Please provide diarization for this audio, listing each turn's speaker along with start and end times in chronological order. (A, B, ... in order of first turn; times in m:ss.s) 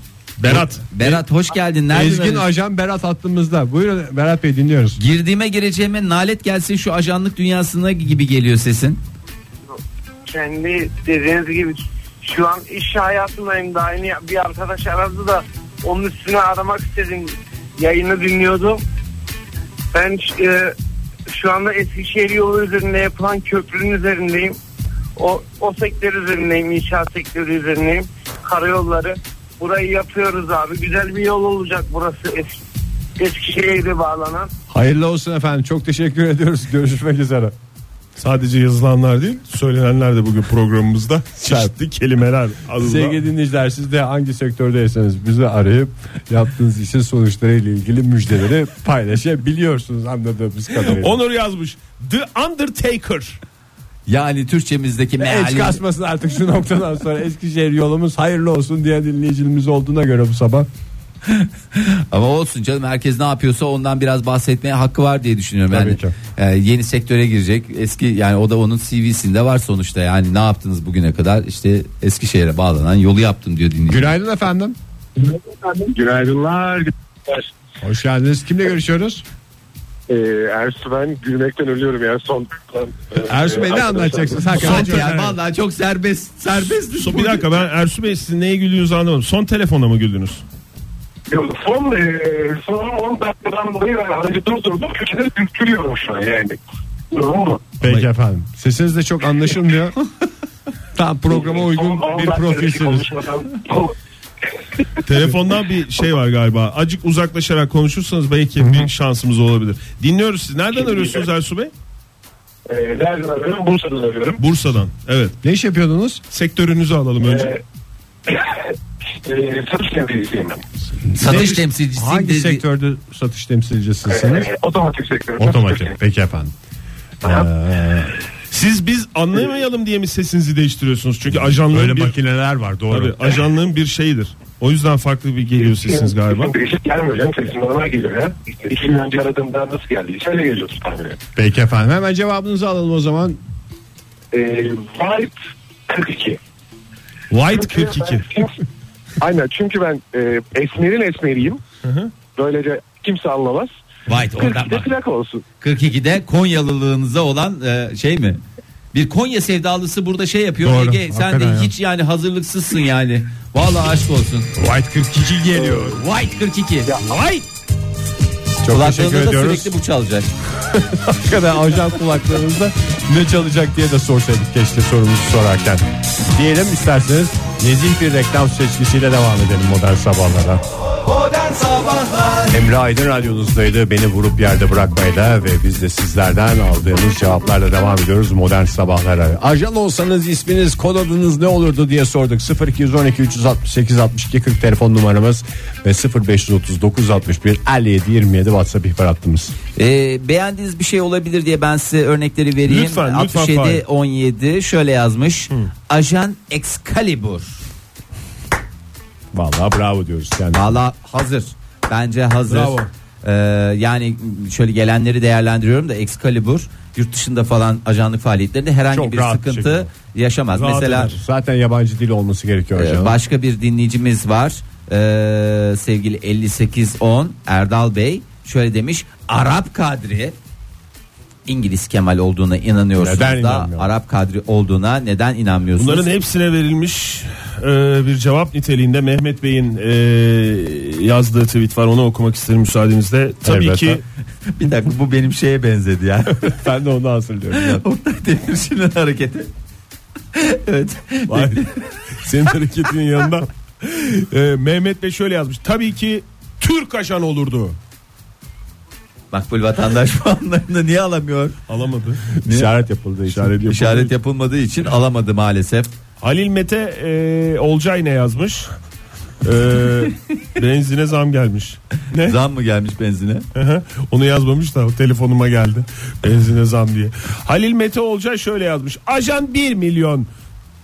0:00.4-0:00.8 A
0:00.5-0:01.2 B
0:00.5-0:02.5 C
0:01.9-0:05.0 B
0:05.0-0:09.0 C
0:10.4-0:18.8 D
0:19.9-0:20.7 D
0:21.3-0:24.6 D
0:25.2-0:32.5 D
0:33.2-0:34.5 D
0:34.7-0:37.5 B
0:38.2-0:43.2 A
0:41.4-0:41.7 B
0:42.8-0:51.2 B
0:50.8-0:53.4 A
0:54.1-0:55.8 C
0:55.2-1:00.7 B
1:01.3-1:14.1 C
1:05.7-1:06.1 B
1:13.9-1:14.8 B
1:15.2-1:17.5 E
1:17.8-1:19.2 B
1:20.1-1:24.6 E
1:23.2-1:25.4 B
1:24.5-1:27.4 C
1:24.6-1:25.2 A
1:27.0-1:30.4 A
1:31.3-1:36.6 E
1:37.1-1:37.7 E
1:37.8-1:40.0 B
1:40.9-1:43.1 B
1:41.3-1:43.9 E
1:45.0-1:51.7 A
1:48.6-1:48.9 B
1:50.8-1:51.2 E
1:52.6-1:54.4 E
1:54.4-1:55.4 A
1:55.4-1:56.2 B
1:56.3-1:57.5 A
1:57.2-1:57.6 E
1:58.3-1:58.6 E
1:59.2-2:00.6 E
2:01.1-2:04.5 B
2:01.2-2:02.6 C
2:04.0-2:05.9 E
2:05.4-2:06.5 B
2:07.2-2:08.1 B
2:08.5-2:12.2 A
2:11.7-2:13.4 B
2:12.9-2:16.6 A
2:15.6-2:21.2 E
2:21.4-2:23.4 B
2:24.3-2:25.3 E
2:25.9-2:26.4 E
2:27.3-2:28.2 A
2:27.5-2:28.5 E
2:29.2-2:31.6 E
2:31.8-2:32.1 A
2:32.3-2:33.7 E
2:34.1-2:34.9 C
2:34.2-2:35.4 E
2:35.6-2:38.4 C
2:38.9-2:44.5 C
2:40.6-2:41.7 B
2:44.6-2:46.0 B
2:45.6-2:45.9 E
2:45.9-2:46.9 C
2:48.6-2:49.7 B
2:48.7-2:50.3 C
2:50.7-3:00.6 B
3:02.5-3:19.5 B
3:19.8-3:27.6 C
3:22.6-3:23.8 A
3:29.3-3:30.7 B
3:30.5-3:41.1 C
3:32.5-3:32.8 B
3:38.9-3:39.9 B
3:40.5-3:41.2 A
3:41.0-3:43.2 B
3:42.8-3:50.4 C
3:51.5-3:56.1 C
3:53.0-3:53.9 B
3:55.8-4:04.0 A
4:03.4-4:04.0 B
4:04.5-4:06.4 C
4:06.4-4:07.8 B
4:07.5-4:09.5 C
4:10.3-4:11.8 C
4:11.3-4:11.6 A
4:12.2-4:17.8 A
4:19.3-4:21.5 C
4:21.7-4:22.4 A
4:22.4-4:23.6 B
4:23.3-4:24.1 A
4:23.7-4:25.9 C
4:26.2-4:28.7 A
4:29.4-4:32.4 A
4:32.2-4:33.4 C
4:33.5-4:40.3 A